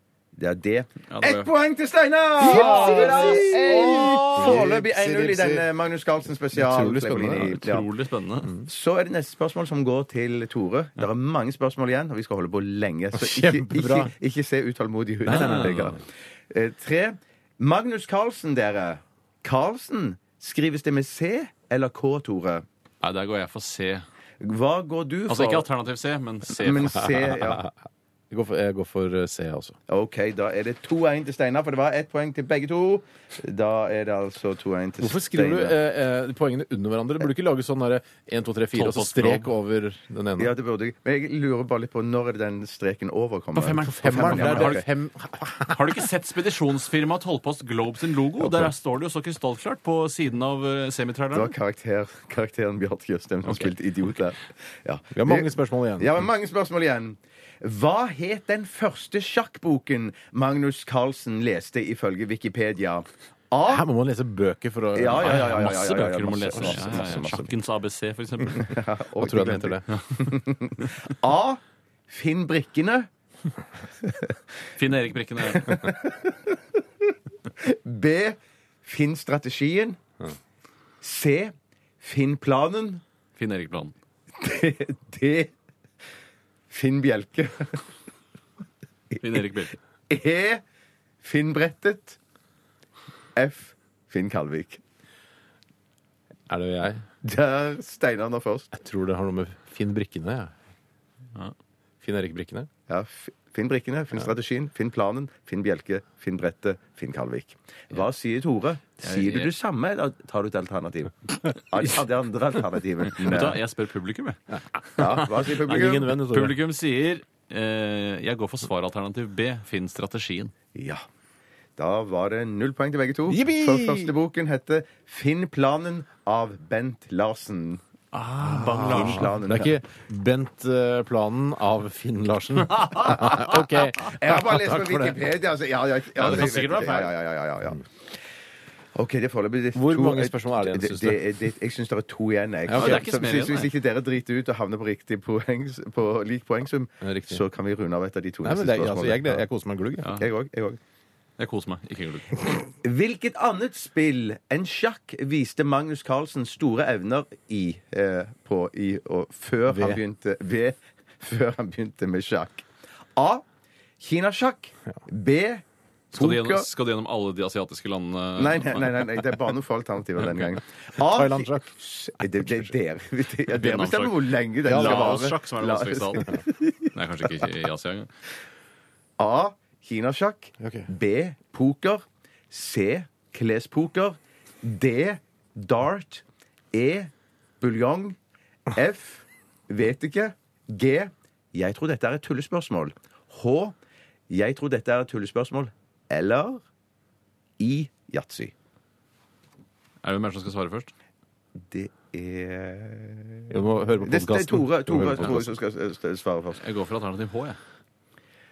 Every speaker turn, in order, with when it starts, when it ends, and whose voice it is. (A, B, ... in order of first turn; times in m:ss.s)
0:00.4-0:07.9 A
0:01.1-0:01.5 B
0:02.4-0:05.7 C
0:02.4-0:04.6 B
0:06.5-0:07.6 C
0:07.5-0:08.5 B
0:08.6-0:22.6 A
0:13.1-0:14.1 C
0:15.2-0:15.9 C
0:15.3-0:16.0 B
0:23.0-0:24.0 B
0:24.4-0:25.6 A
0:25.3-0:27.1 B
0:26.5-0:27.6 A
0:27.4-0:27.7 C
0:28.3-0:29.8 C
0:29.9-0:35.8 A
0:35.0-0:40.5 C
0:38.7-0:39.5 B
0:40.4-0:44.8 A
0:43.5-0:44.8 B
0:44.0-0:46.0 C
0:45.7-0:51.5 B
0:48.4-0:48.7 C
0:51.3-1:03.8 A
0:55.1-0:56.3 C
1:03.6-1:05.8 C
1:04.9-1:07.5 A
1:05.2-1:08.7 B
1:06.6-1:07.2 C
1:08.5-1:13.1 A
1:09.2-1:09.8 C
1:09.9-1:10.2 B
1:14.8-1:15.8 B
1:15.5-1:16.6 A
1:17.6-1:20.0 A
1:21.0-1:23.0 A
1:23.4-1:23.9 B
1:24.4-1:25.5 A
1:26.7-1:27.8 A
1:29.1-1:29.4 A
1:29.2-1:29.7 B
1:30.1-1:30.6 A
1:31.2-1:32.2 A
1:33.4-1:34.8 A
1:36.5-1:37.0 C
1:37.2-1:38.7 A
1:38.7-1:40.5 C
1:42.0-1:42.7 C
1:42.9-1:53.6 A
1:49.0-1:49.5 B
1:53.1-1:54.4 B
1:54.9-2:00.5 B
1:55.0-1:56.1 A
1:55.4-1:56.6 C
2:00.7-2:01.0 A
2:01.8-2:07.8 A
2:03.3-2:04.1 C
2:08.1-2:09.3 B
2:08.4-2:15.3 C
2:08.6-2:09.8 A
2:13.0-2:17.8 A
2:16.2-2:17.1 B
2:18.9-2:29.4 A
2:19.7-2:21.3 C
2:22.6-2:23.0 C
2:22.7-2:23.7 B
2:27.0-2:27.4 C
2:28.4-2:30.1 C
2:30.1-2:30.8 A
2:31.4-2:32.4 B
2:32.8-2:43.4 A
2:39.7-2:40.0 C
2:44.0-2:46.7 A
2:46.1-2:49.0 B
2:48.4-2:56.7 A
2:51.0-2:51.7 C
2:52.3-2:52.7 C
2:53.5-2:58.1 B
2:54.6-2:55.3 C
2:59.2-3:08.2 A
3:00.6-3:00.9 C
3:08.7-3:13.7 A
3:14.3-3:16.6 A
3:17.6-3:18.5 A
3:20.0-3:20.9 B
3:21.7-3:26.6 A
3:23.5-3:25.6 C
3:26.6-3:27.6 B